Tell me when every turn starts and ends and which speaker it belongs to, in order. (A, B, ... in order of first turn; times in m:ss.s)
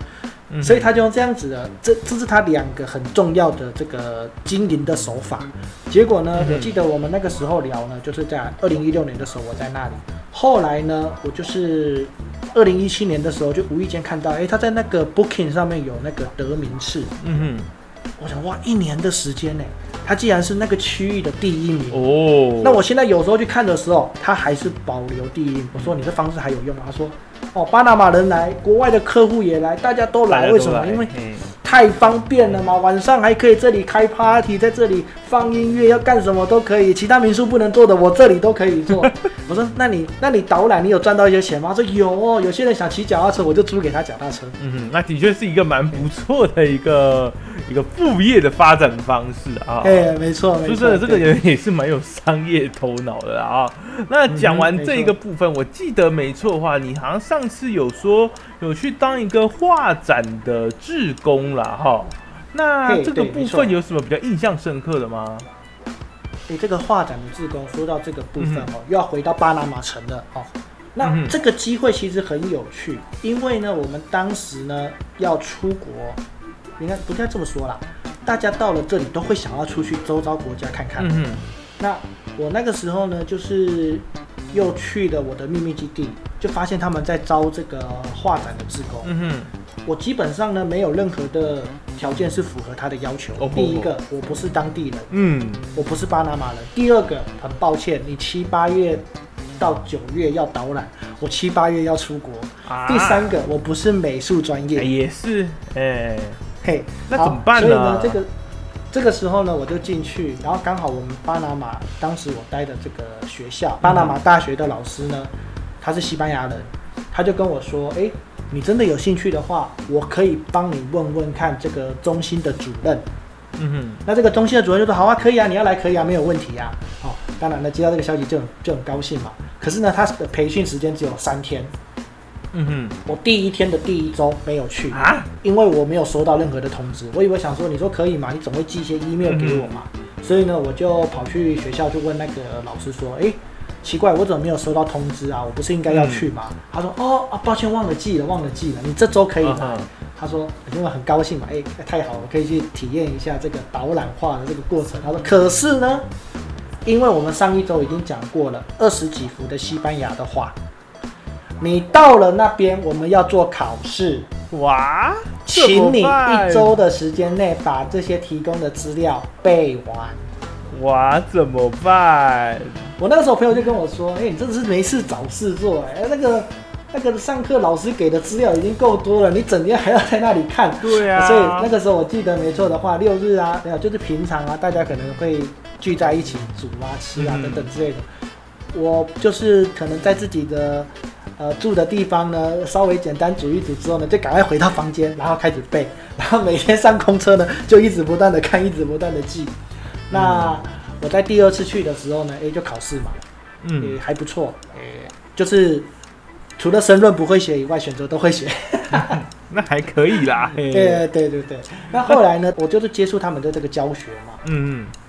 0:00.5-0:00.9 A
0:00.6-0:17.1 B
0:06.4-0:06.7 A
0:17.2-0:17.7 A
0:18.2-0:22.0 B
0:21.9-0:22.8 A
0:22.6-0:44.6 B
0:30.3-0:31.4 A
0:44.6-0:50.1 A
0:49.8-0:51.3 B
0:50.6-1:05.5 A
0:54.3-0:55.1 B
1:02.8-1:03.8 B
1:06.5-1:16.2 B
1:08.4-1:08.7 A
1:11.0-1:11.3 A
1:16.8-1:21.2 B
1:21.0-1:21.4 A
1:21.8-1:29.1 B
1:29.0-1:29.5 A
1:29.8-1:35.1 B
1:33.4-1:33.9 A
1:35.1-1:35.6 A
1:35.7-1:39.0 B
1:39.6-1:44.9 B
1:42.6-1:43.3 A
1:44.8-1:46.4 A
1:46.6-1:48.3 B
1:47.1-1:48.2 A
1:48.9-1:55.3 B
1:53.8-1:54.1 A
1:55.8-2:03.0 B
2:03.6-2:04.0 A
2:04.0-2:11.7 B
2:12.5-2:13.0 A
2:13.0-2:36.1 B
2:14.9-2:15.3 A
2:19.2-2:19.8 A
2:25.9-2:26.3 A
2:29.4-2:29.9 A
2:36.8-2:40.6 B
2:41.6-2:44.3 B
2:44.5-2:46.8 A
2:45.4-2:50.2 B
2:50.7-2:52.9 A
2:53.0-3:08.0 B
3:00.8-3:01.7 A
3:07.1-3:07.7 A
3:08.7-3:19.5 B
3:20.1-3:23.2 B
3:20.1-3:20.6 A
3:23.6-3:24.0 A
3:23.8-3:25.9 B
3:26.6-3:29.2 B
3:29.1-3:31.0 A
3:30.6-3:34.4 B
3:34.4-3:34.9 A